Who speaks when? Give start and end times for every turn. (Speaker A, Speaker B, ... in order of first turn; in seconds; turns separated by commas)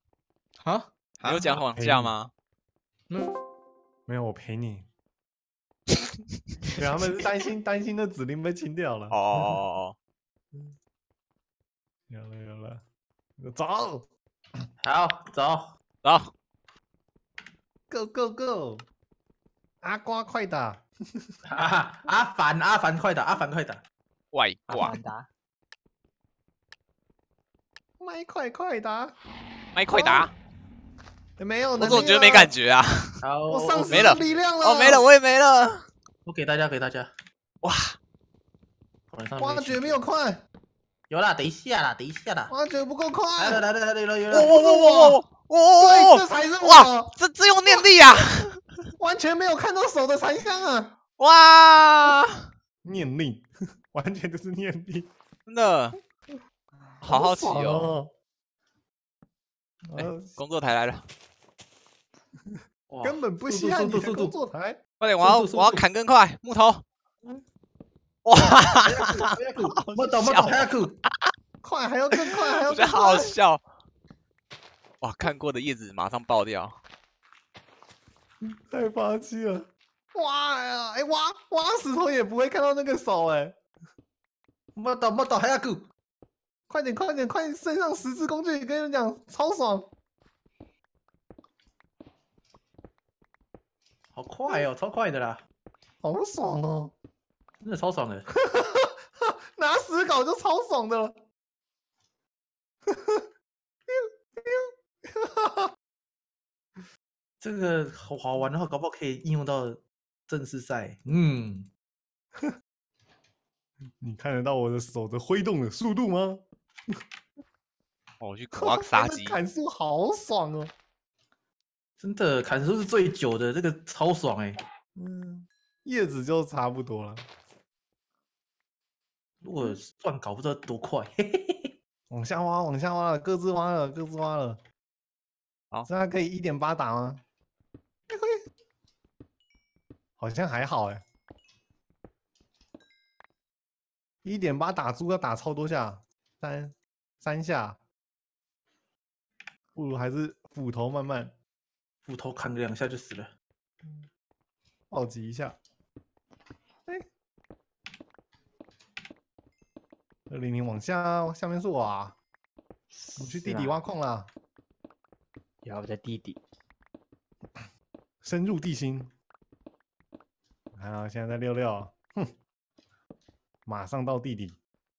Speaker A: 0.6-1.6, Speaker B: 1.2-2.3, Speaker C: 1.7-2.2, Speaker C: 4.1-4.9, Speaker C: 6.7-9.6, Speaker B: 9.1-10.0, Speaker C: 12.1-12.8, Speaker C: 13.4-14.1, Speaker A: 14.8-15.7, Speaker B: 16.0-16.3, Speaker C: 17.9-18.9, Speaker C: 19.8-21.3, Speaker A: 21.4-23.8, Speaker B: 24.3-25.0, Speaker D: 24.7-25.3, Speaker C: 28.0-29.2, Speaker B: 29.7-30.3, Speaker C: 29.9-30.3, Speaker C: 31.4-32.5, Speaker B: 31.7-33.2, Speaker A: 33.2-34.3, Speaker C: 33.5-35.0, Speaker B: 33.9-35.9, Speaker A: 36.2-37.1, Speaker B: 37.6-38.0, Speaker A: 39.1-40.0, Speaker C: 39.4-40.4, Speaker A: 41.1-42.5, Speaker C: 42.5-43.6, Speaker A: 43.4-45.1, Speaker B: 44.3-48.9, Speaker C: 45.8-47.1, Speaker C: 49.0-50.9, Speaker B: 51.2-52.5, Speaker C: 52.8-55.1, Speaker B: 55.5-56.0, Speaker C: 57.0-58.1, Speaker B: 57.0-58.0, Speaker C: 59.8-60.4, Speaker B: 60.0-61.1, Speaker C: 62.5-64.8, Speaker A: 62.9-64.4, Speaker B: 65.0-66.8, Speaker A: 65.2-65.9, Speaker B: 68.2-71.3, Speaker A: 68.4-71.0, Speaker C: 71.6-73.4, Speaker B: 72.1-73.6, Speaker B: 75.0-76.8, Speaker C: 78.4-83.6, Speaker A: 84.8-85.9, Speaker C: 86.7-89.9, Speaker A: 94.1-95.4, Speaker C: 96.0-97.0, Speaker A: 97.6-98.3, Speaker C: 98.3-101.2, Speaker C: 102.9-103.3, Speaker C: 103.9-105.7, Speaker A: 107.4-111.7, Speaker C: 114.0-116.5, Speaker B: 118.2-119.4, Speaker C: 118.5-120.7, Speaker A: 122.0-124.6, Speaker C: 125.0-127.3, Speaker A: 129.4-131.7, Speaker C: 132.1-134.6, Speaker C: 135.9-137.2, Speaker C: 138.1-138.4, Speaker C: 140.2-141.0, Speaker C: 144.2-147.8, Speaker C: 149.8-151.3, Speaker A: 152.1-153.3, Speaker C: 153.8-154.1, Speaker C: 154.9-155.6, Speaker C: 160.3-162.2, Speaker D: 162.9-163.8, Speaker C: 163.2-164.3, Speaker D: 165.6-166.4, Speaker C: 168.2-169.1, Speaker C: 170.8-172.3, Speaker C: 173.7-174.6